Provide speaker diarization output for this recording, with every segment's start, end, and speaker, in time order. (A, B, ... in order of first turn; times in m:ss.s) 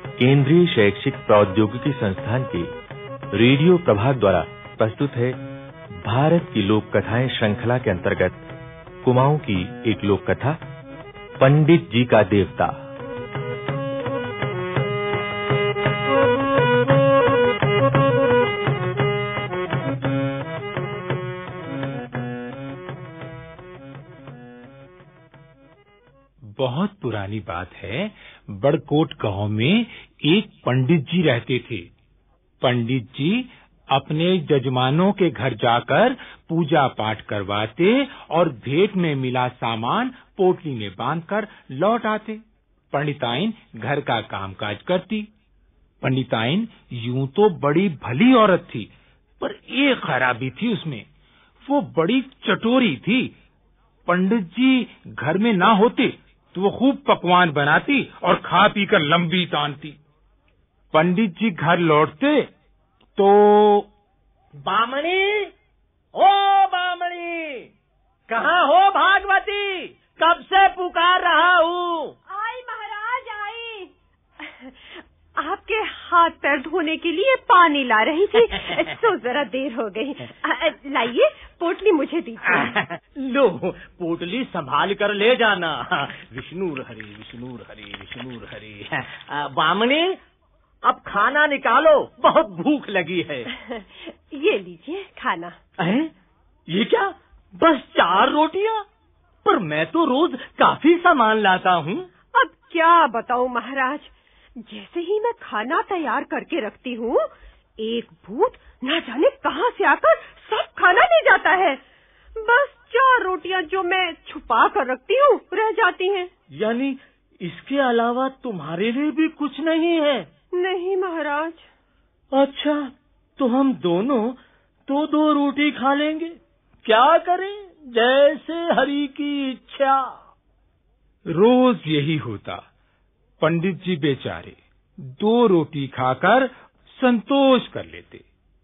0:00.2-0:02.7 A
0:03.3-0:05.4 A
0:06.0-0:08.4 A
0:09.0-0:10.6 A
0:11.4-0:12.8 A
0:26.6-0:31.9 B
0:32.6-0:45.3 B
0:46.0-0:48.9 B
0:49.4-0:51.1 B
0:51.6-0:53.3 B
0:54.1-1:00.0 B
1:00.9-1:02.5 B
1:03.2-1:03.9 B
1:04.6-1:05.5 C
1:06.2-1:07.7 C
1:08.3-1:12.2 C
1:12.3-1:22.8 D
1:22.6-1:30.2 C
1:30.9-1:33.5 C
1:33.5-1:35.6 D
1:35.8-1:36.1 C
1:36.7-1:38.8 C
1:39.4-1:42.1 C
1:42.3-1:51.8 D
1:52.4-1:56.3 D
1:56.5-2:00.3 C
2:00.5-2:01.7 D
2:02.3-2:10.1 C
2:11.3-2:12.6 B
2:13.4-2:18.2 B